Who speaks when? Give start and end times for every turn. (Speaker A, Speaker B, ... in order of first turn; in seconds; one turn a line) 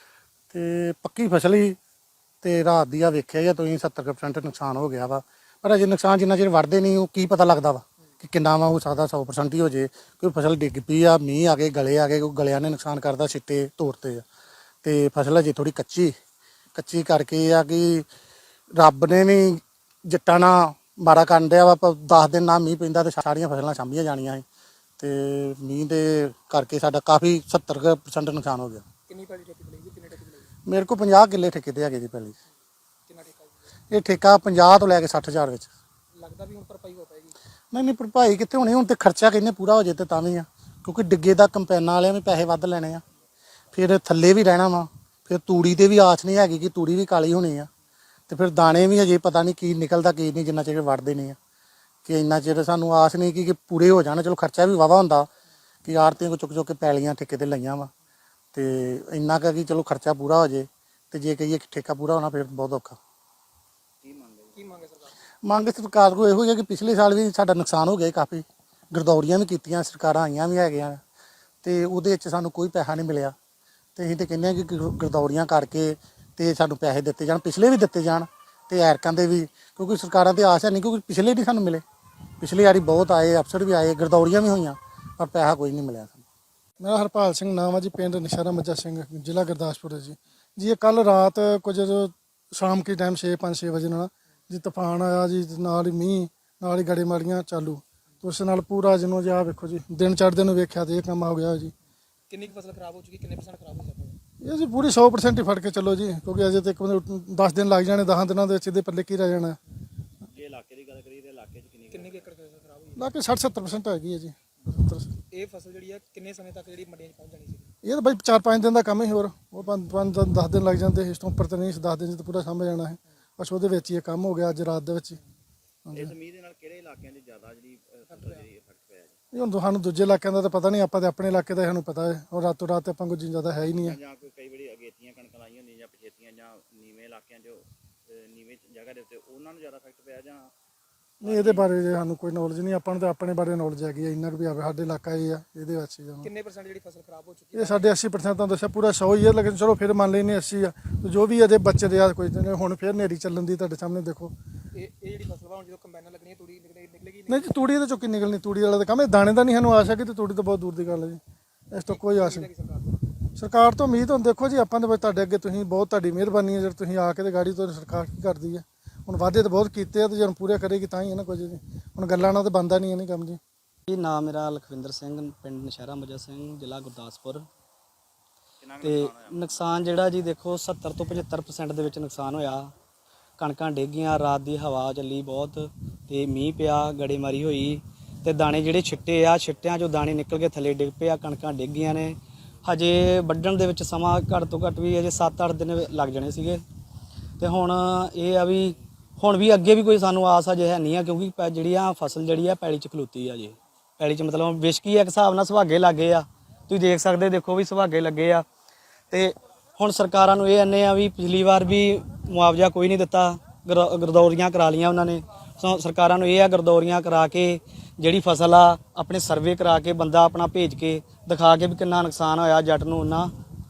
Speaker A: 0.5-1.8
Speaker A: 2.4-14.2
Speaker A: 14.8-16.1
Speaker A: 16.7-18.1
Speaker A: 18.7-24.4
Speaker A: 25.0-28.8
Speaker B: 29.1-30.5
Speaker A: 30.7-32.4
Speaker B: 33.1-33.6
Speaker A: 33.9-35.7
Speaker B: 36.1-37.3
Speaker A: 37.7-43.0
Speaker A: 43.7-47.7
Speaker A: 48.3-51.4
Speaker A: 52.0-55.3
Speaker A: 55.8-57.9
Speaker A: 58.5-63.0
Speaker C: 64.0-64.6
Speaker B: 64.5-65.1
Speaker A: 65.4-71.0
Speaker A: 71.6-73.3
Speaker A: 74.0-81.8
Speaker A: 82.4-86.2
Speaker D: 86.8-101.7
Speaker B: 102.3-104.2
Speaker D: 104.4-109.6
Speaker C: 110.2-112.3
Speaker B: 111.9-113.0
Speaker D: 113.0-115.1
Speaker B: 115.3-117.7
Speaker D: 117.8-125.2
Speaker D: 125.8-126.1
Speaker C: 125.9-129.2
Speaker B: 128.1-128.4
Speaker D: 129.3-134.0
Speaker C: 133.8-140.5
Speaker C: 141.2-141.7
Speaker D: 141.2-146.3
Speaker B: 146.2-147.9
Speaker D: 147.5-154.3
Speaker B: 154.7-157.5
Speaker D: 157.3-161.2
Speaker D: 161.7-162.5
Speaker B: 161.9-163.0
Speaker D: 163.3-173.4
Speaker E: 173.9-177.4
Speaker C: 178.6-179.7
Speaker E: 178.8-182.7
Speaker E: 183.4-196.6
Speaker E: 197.4-208.4
Speaker E: 209.1-223.3